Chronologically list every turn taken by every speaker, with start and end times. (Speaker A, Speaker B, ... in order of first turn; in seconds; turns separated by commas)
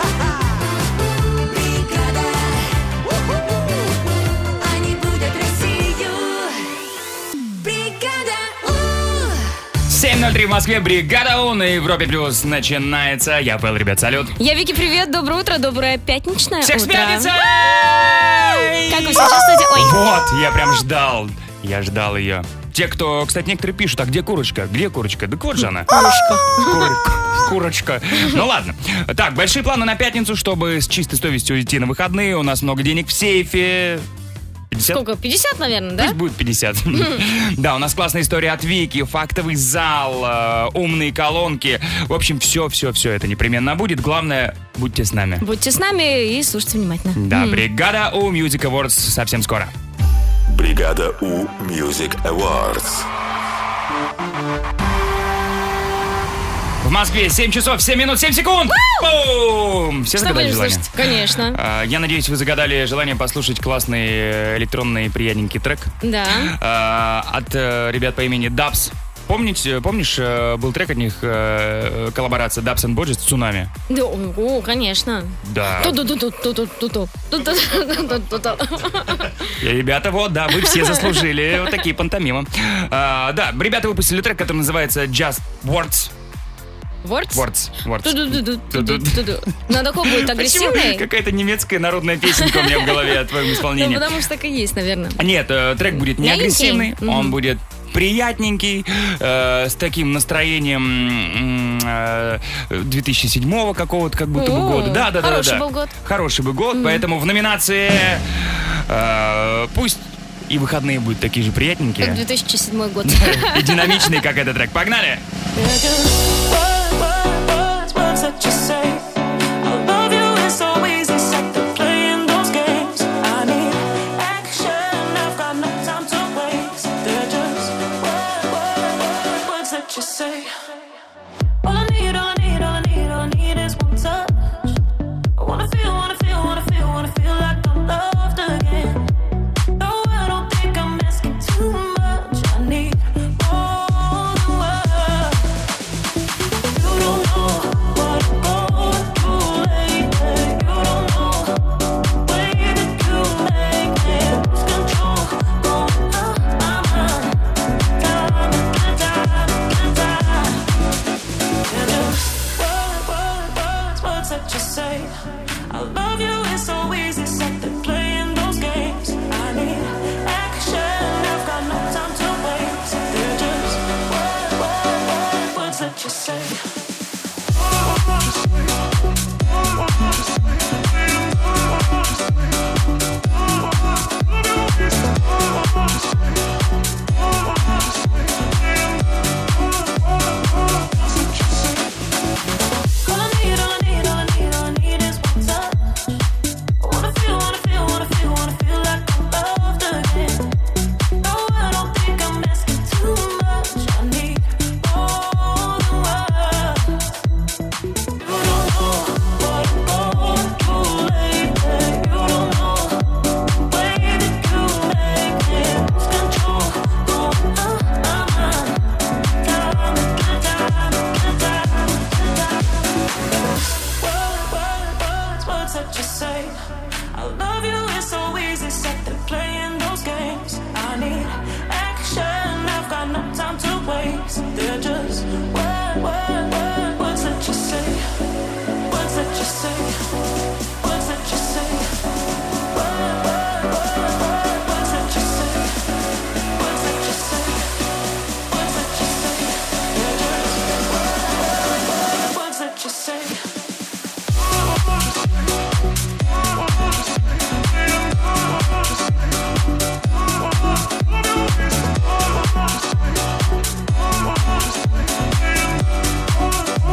Speaker A: 1.0-2.8, Speaker A: 4.6-6.7, Speaker A: 7.6-9.4, Speaker B: 9.9-14.3, Speaker C: 14.4-17.3, Speaker B: 16.6-34.1, Speaker C: 18.9-20.0, Speaker C: 25.9-26.9, Speaker B: 34.7-35.0, Speaker C: 34.9-36.2, Speaker B: 36.0-45.4, Speaker C: 45.4-47.6, Speaker B: 47.2-49.7, Speaker D: 50.5-53.1, Speaker B: 56.8-73.7, Speaker C: 58.7-59.0, Speaker C: 60.2-61.6, Speaker C: 66.0-66.5, Speaker C: 73.9-79.5, Speaker B: 75.4-76.0, Speaker B: 79.6-86.1, Speaker C: 80.6-81.2, Speaker C: 87.0-87.5, Speaker B: 87.3-89.4, Speaker C: 88.0-91.1, Speaker B: 90.1-94.0, Speaker C: 92.3-95.2, Speaker B: 95.2-112.2, Speaker C: 96.2-97.4, Speaker C: 104.4-105.9, Speaker C: 106.8-107.0, Speaker C: 112.0-114.1, Speaker B: 113.1-115.2, Speaker E: 115.5-130.9, Speaker E: 131.6-134.8, Speaker E: 135.4-139.1, Speaker E: 139.8-145.5, Speaker E: 146.7-157.4, Speaker E: 158.0-160.7, Speaker E: 161.6-176.8, Speaker E: 191.2-191.6, Speaker E: 193.0-196.2, Speaker E: 196.8-200.5, Speaker E: 201.2-207.0, Speaker E: 208.2-213.1, Speaker E: 213.6-223.1, Speaker E: 224.0-238.1, Speaker E: 238.8-240.1, Speaker E: 240.8-242.0, Speaker E: 242.7-245.8, Speaker E: 246.6-247.7, Speaker E: 248.5-253.5